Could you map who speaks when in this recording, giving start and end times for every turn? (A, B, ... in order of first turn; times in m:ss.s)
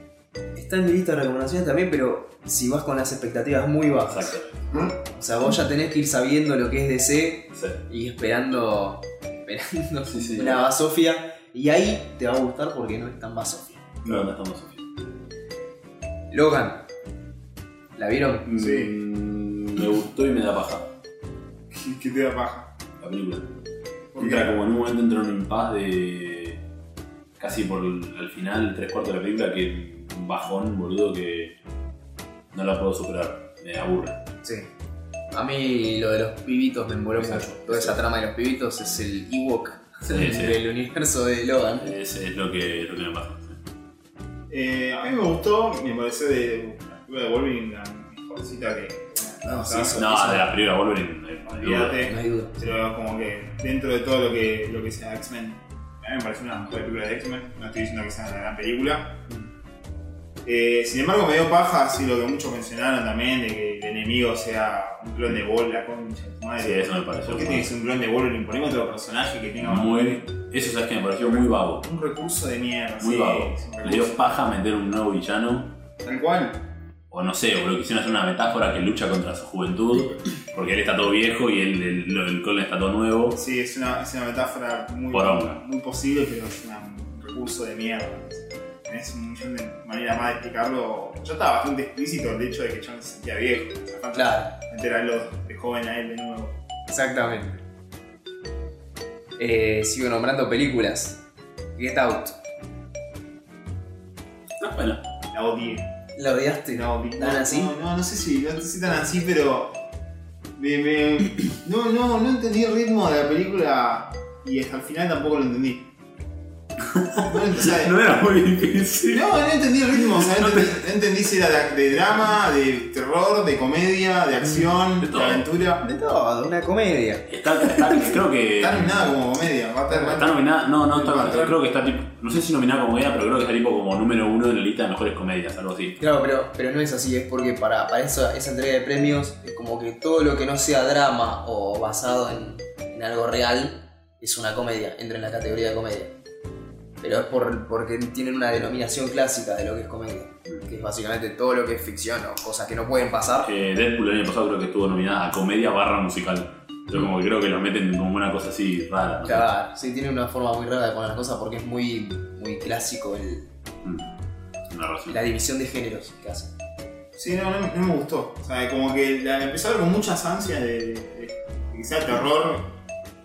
0:00.6-0:04.3 A
0:04.1-0:04.9 B
0:05.0-0:13.8 A
0:10.1-0:10.6 B
0:14.0-0:14.8 B
0:14.0-0:14.3 C
0:16.3-0:16.8 A
0:18.0-0:18.5 A
0:18.5-0:20.9 B
0:18.6-0:18.9 C
0:21.7-0:22.7 C
0:23.0-0:23.5 B
0:24.1-0:24.6 C
0:24.2-0:26.6 B
0:27.4-0:31.5 B
0:32.5-0:34.2 B
0:35.3-0:41.9 A
0:37.2-0:38.0 B
0:40.1-0:40.6 B
0:41.8-0:43.6 B
0:44.5-0:50.0 C
0:49.4-0:50.5 A
0:50.0-0:52.0 B
0:51.5-0:59.2 C
0:52.0-0:52.6 A
1:00.4-1:10.2 C
1:06.6-1:07.7 B
1:09.6-1:11.8 B
1:11.2-1:14.3 C
1:13.0-1:15.7 B
1:16.0-1:16.6 C
1:17.1-1:23.4 B
1:23.3-1:36.6 C
1:25.1-1:25.6 B
1:34.2-1:34.5 A
1:36.9-1:37.6 A
1:39.4-1:41.2 A
1:41.8-1:42.4 A
1:44.6-1:45.0 B
1:45.3-1:45.9 C
1:46.2-1:47.7 A
1:46.7-1:49.8 C
1:50.6-1:55.9 C
1:56.8-2:00.8 B
1:57.2-1:58.2 C
1:59.1-2:05.8 C
2:05.0-2:05.5 B
2:05.8-2:08.2 A
2:07.3-2:09.2 B
2:08.6-2:11.6 C
2:09.9-2:10.2 A
2:10.1-2:16.0 B
2:16.0-2:26.1 A
2:27.0-2:33.5 A
2:33.4-2:39.5 B
2:39.2-2:43.5 A
2:44.7-2:45.2 B
2:45.1-2:46.5 A
2:47.2-2:52.7 C